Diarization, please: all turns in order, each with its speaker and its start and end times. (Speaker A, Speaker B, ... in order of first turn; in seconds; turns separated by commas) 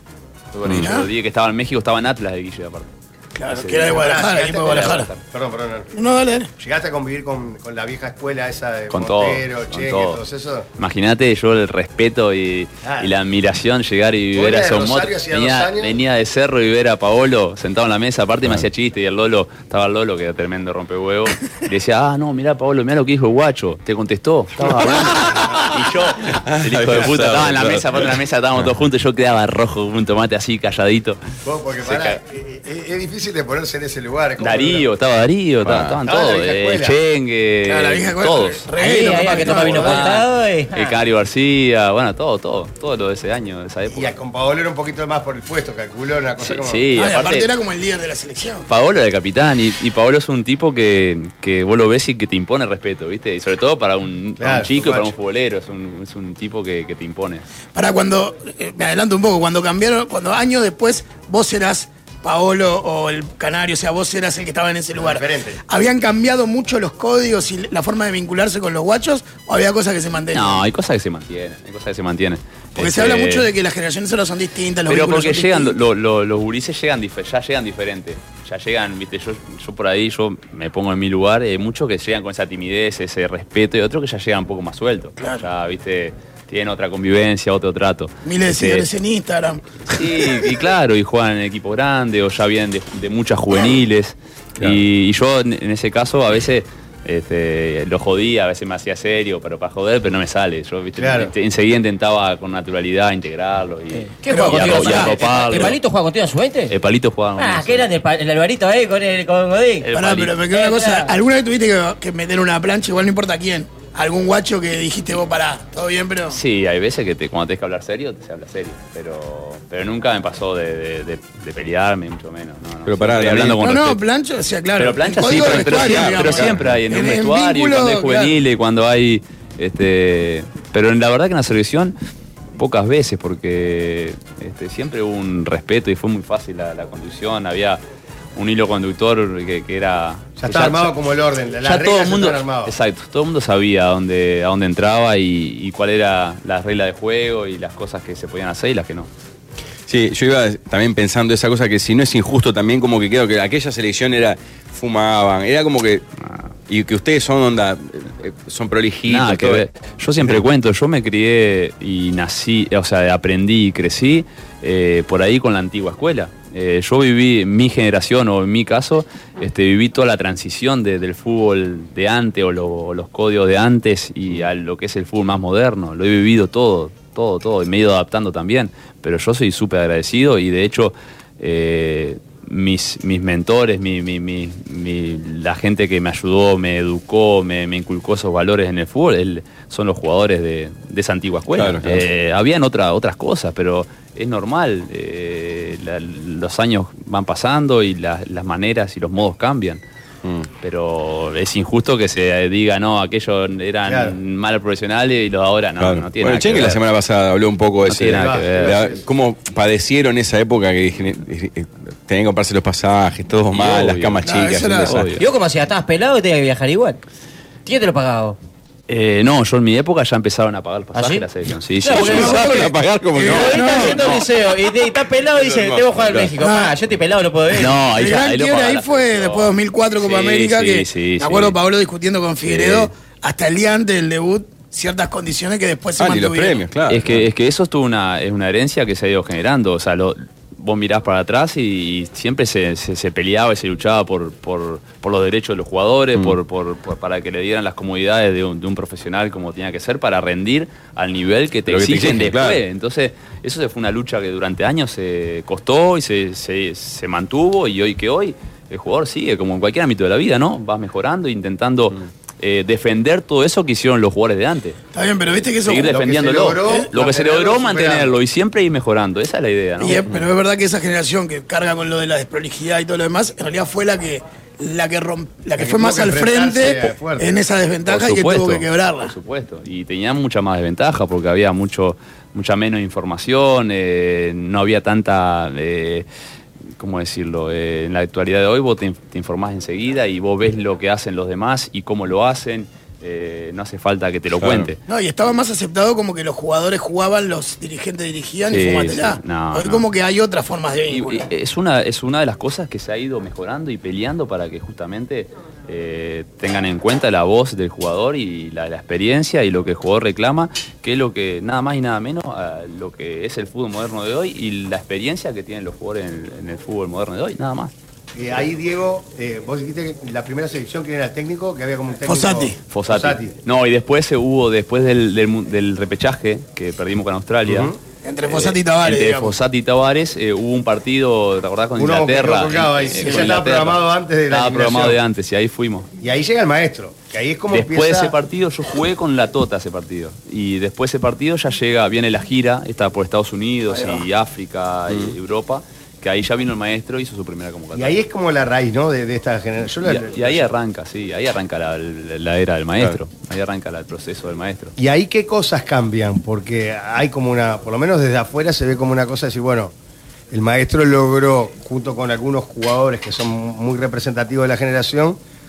Speaker A: 0.5-2.9, Speaker B: 0.6-0.9, Speaker C: 0.7-1.1, Speaker C: 3.3-5.1, Speaker A: 3.5-5.2, Speaker D: 3.9-5.9, Speaker C: 5.9-6.5, Speaker D: 6.6-10.7, Speaker A: 8.9-10.2, Speaker A: 10.8-31.2, Speaker D: 12.8-13.1, Speaker D: 14.3-15.9, Speaker D: 24.6-25.6, Speaker B: 26.4-28.0, Speaker D: 31.4-34.9, Speaker A: 31.8-32.2, Speaker A: 34.4-38.7, Speaker B: 35.6-36.0, Speaker D: 36.0-36.9, Speaker C: 37.7-40.0, Speaker E: 38.8-41.0, Speaker A: 39.3-44.1, Speaker D: 39.5-40.0, Speaker D: 43.9-46.9, Speaker A: 46.4-47.5, Speaker C: 46.9-48.7, Speaker A: 48.7-57.4, Speaker D: 54.4-55.1, Speaker C: 57.7-70.6, Speaker D: 64.9-65.6, Speaker A: 70.3-73.5, Speaker C: 72.8-75.7, Speaker A: 74.9-88.9, Speaker C: 88.2-90.0, Speaker A: 89.9-105.8, Speaker D: 101.0-101.3, Speaker E: 104.2-106.7, Speaker C: 104.2-105.5, Speaker A: 106.7-107.9, Speaker E: 107.4-109.9, Speaker A: 109.8-110.3, Speaker C: 109.9-116.4, Speaker E: 110.5-111.1, Speaker A: 116.3-124.0, Speaker B: 122.8-123.6, Speaker C: 123.5-128.4, Speaker A: 124.8-131.9, Speaker B: 125.2-126.6, Speaker A: 132.6-137.8, Speaker A: 138.3-140.9, Speaker D: 140.4-142.7, Speaker A: 141.6-149.1, Speaker B: 149.9-156.0, Speaker B: 156.7-159.7, Speaker A: 159.1-199.8, Speaker B: 160.2-160.4, Speaker B: 191.6-192.1, Speaker A: 200.6-206.8, Speaker D: 203.8-204.1, Speaker B: 205.8-215.1, Speaker A: 207.8-208.8, Speaker D: 208.1-209.0, Speaker A: 213.5-214.2, Speaker C: 214.2-214.9, Speaker A: 214.9-215.2, Speaker E: 215.2-217.0, Speaker E: 217.7-218.4, Speaker A: 218.9-222.7, Speaker E: 220.9-221.2, Speaker E: 221.8-227.9, Speaker B: 221.9-223.8, Speaker C: 222.0-222.6, Speaker C: 223.2-224.0, Speaker A: 223.3-224.2, Speaker B: 225.4-226.3, Speaker C: 226.4-226.8, Speaker A: 227.6-231.6, Speaker C: 227.7-236.6, Speaker A: 232.6-232.9, Speaker B: 236.0-237.3, Speaker A: 236.9-264.8, Speaker B: 251.7-252.6, Speaker C: 264.9-265.9, Speaker A: 265.6-270.1, Speaker D: 265.9-268.1, Speaker C: 269.8-279.1, Speaker D: 275.6-277.4, Speaker A: 277.9-286.1, Speaker A: 286.8-294.8, Speaker B: 294.4-294.7, Speaker C: 294.9-301.2, Speaker A: 298.5-299.8, Speaker A: 300.9-317.7, Speaker D: 318.1-323.3, Speaker C: 322.1-322.6, Speaker A: 322.7-327.7, Speaker D: 327.4-327.7, Speaker C: 328.0-329.3, Speaker A: 328.2-335.9, Speaker D: 331.8-335.0, Speaker C: 333.0-333.3, Speaker D: 336.0-338.1, Speaker A: 337.5-348.0, Speaker D: 343.7-344.0, Speaker B: 344.9-345.1, Speaker D: 347.7-350.4, Speaker A: 349.8-354.7, Speaker D: 354.8-359.7, Speaker D: 360.3-365.2